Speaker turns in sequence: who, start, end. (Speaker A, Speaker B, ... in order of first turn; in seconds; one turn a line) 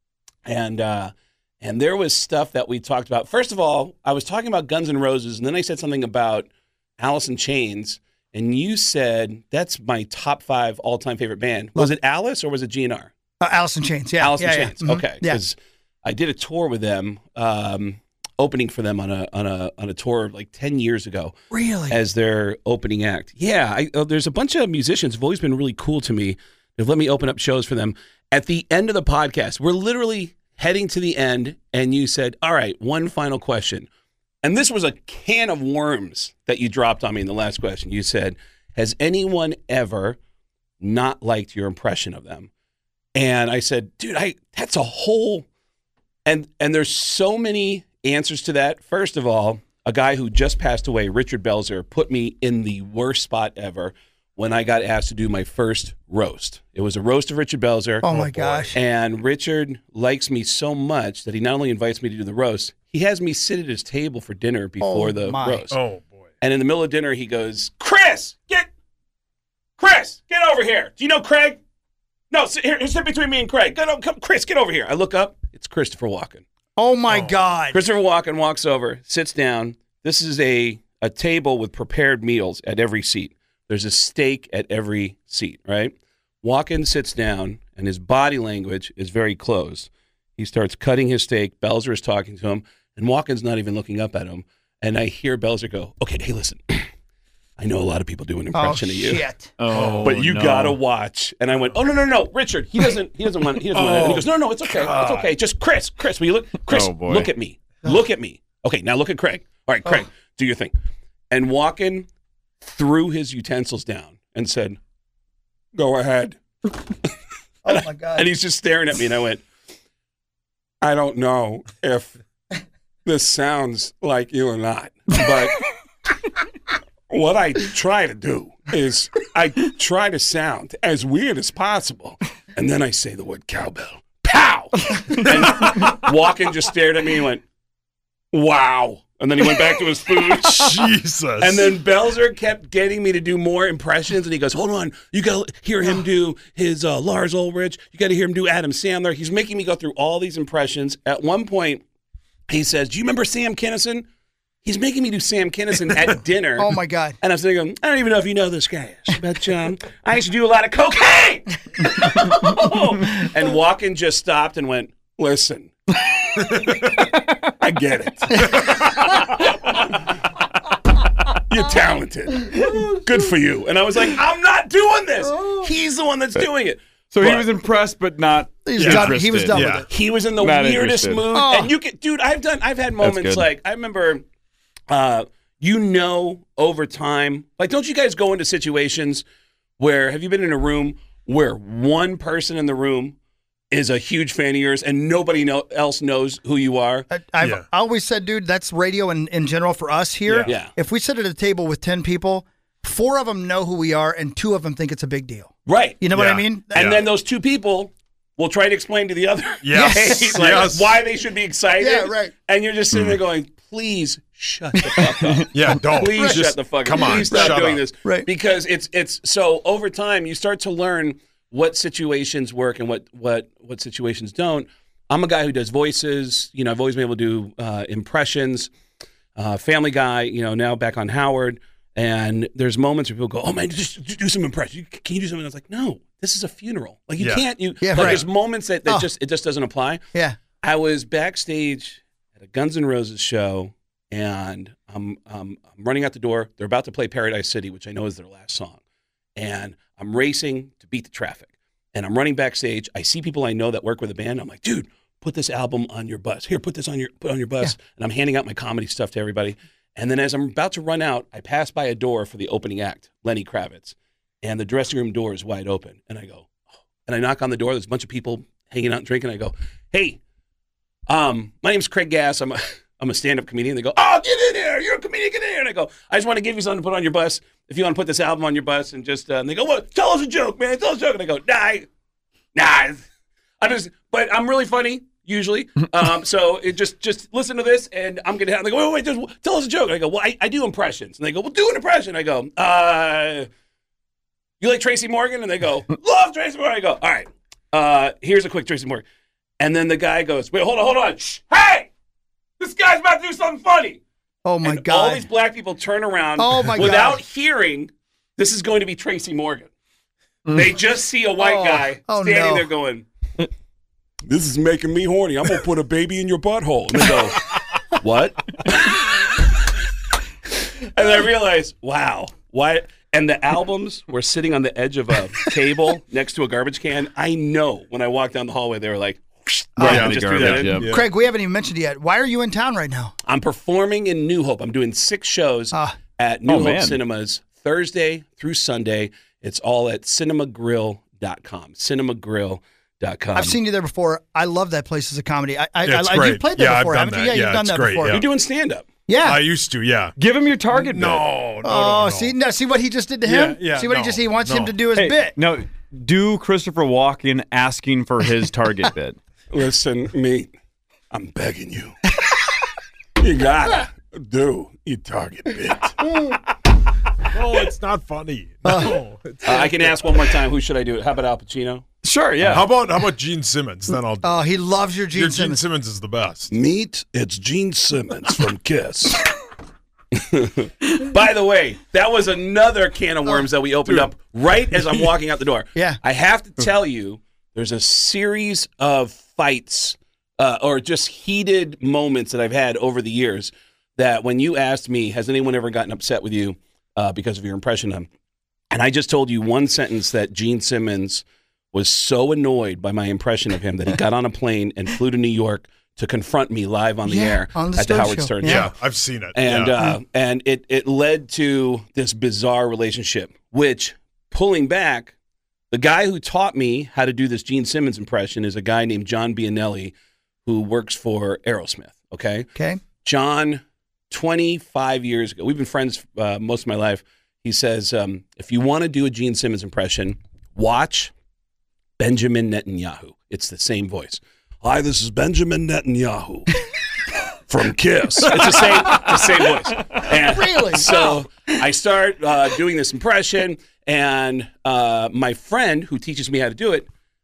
Speaker A: 0.5-13.1
Speaker B: 13.4-15.4
Speaker A: 14.2-21.4
Speaker B: 21.5-22.0
Speaker A: 21.9-33.9
Speaker A: 34.4-40.2
Speaker A: 40.8-42.5
Speaker A: 43.1-45.5
Speaker A: 46.3-65.8
Speaker B: 58.0-58.8
Speaker C: 58.1-58.6
Speaker B: 64.8-65.6
Speaker C: 65.7-66.3
Speaker A: 66.4-68.7
Speaker A: 69.8-71.6
Speaker A: 72.3-76.5
Speaker B: 76.8-77.8
Speaker A: 77.7-96.9
Speaker A: 97.6-99.2
Speaker B: 98.5-99.5
Speaker D: 99.6-100.8
Speaker C: 99.7-100.1
Speaker A: 99.8-110.7
Speaker C: 103.7-105.3
Speaker D: 106.7-107.3
Speaker A: 111.3-112.1
Speaker A: 112.6-114.8
Speaker A: 115.8-116.4
Speaker B: 117.7-118.3
Speaker A: 118.2-119.4
Speaker A: 120.8-122.1
Speaker A: 123.0-125.6
Speaker A: 127.1-137.4
Speaker A: 138.3-140.9
Speaker C: 140.5-141.7
Speaker A: 141.4-151.8
Speaker A: 152.5-154.1
Speaker A: 154.6-170.1
Speaker B: 156.6-157.2
Speaker A: 171.4-177.5
Speaker B: 175.3-175.7
Speaker D: 177.1-179.7
Speaker B: 178.7-179.9
Speaker C: 178.8-179.8
Speaker A: 179.9-184.2
Speaker D: 180.4-181.2
Speaker B: 181.3-181.7
Speaker D: 183.0-183.5
Speaker A: 184.9-189.2
Speaker A: 189.8-193.2
Speaker A: 193.7-197.1
Speaker B: 197.1-206.8
Speaker C: 197.4-197.7
Speaker C: 200.3-200.5
Speaker A: 200.5-200.7
Speaker A: 205.7-206.0
Speaker C: 206.1-207.0
Speaker A: 206.7-228.7
Speaker C: 209.6-210.9
Speaker B: 209.7-210.4
Speaker B: 211.8-212.3
Speaker C: 215.5-217.8
Speaker B: 216.0-216.5
Speaker B: 217.0-218.3
Speaker A: 229.4-240.0
Speaker C: 237.2-238.2
Speaker B: 237.8-238.3
Speaker A: 240.6-248.8
Speaker A: 249.4-266.5
Speaker A: 267.1-270.2
Speaker A: 271.1-281.9
Speaker A: 282.6-283.0
Speaker A: 283.6-293.5
Speaker A: 294.6-299.0
Speaker A: 299.6-301.9
Speaker A: 302.6-304.0
Speaker B: 304.4-305.2
Speaker A: 304.6-309.7
Speaker B: 306.4-307.2
Speaker A: 310.5-313.1
Speaker B: 311.4-312.7
Speaker A: 314.3-319.5
Speaker A: 320.8-330.8
Speaker B: 329.8-330.1
Speaker D: 329.8-330.9
Speaker C: 329.8-331.1
Speaker B: 330.8-333.1
Speaker A: 333.3-343.6
Speaker D: 336.5-337.0
Speaker B: 343.3-348.2
Speaker C: 345.9-348.3
Speaker A: 348.1-348.9
Speaker B: 349.1-349.4
Speaker C: 349.2-350.2
Speaker D: 350.2-351.3
Speaker C: 350.7-352.4
Speaker B: 351.6-355.4
Speaker C: 353.2-354.8
Speaker D: 354.9-359.2
Speaker A: 359.5-360.5
Speaker A: 361.1-362.0
Speaker A: 363.2-366.2
Speaker C: 367.3-370.1
Speaker B: 368.6-368.9
Speaker A: 369.4-371.8
Speaker D: 372.0-372.8
Speaker C: 372.4-374.5
Speaker B: 374.2-375.6
Speaker C: 375.1-376.5
Speaker A: 376.5-379.3
Speaker A: 380.1-398.1
Speaker A: 398.7-408.7
Speaker B: 407.1-408.7
Speaker C: 408.4-409.7
Speaker A: 409.3-415.1
Speaker A: 415.7-419.9
Speaker A: 420.4-422.5
Speaker B: 422.6-422.8
Speaker A: 423.0-431.1
Speaker A: 432.0-436.5
Speaker A: 437.5-446.9
Speaker B: 440.1-441.2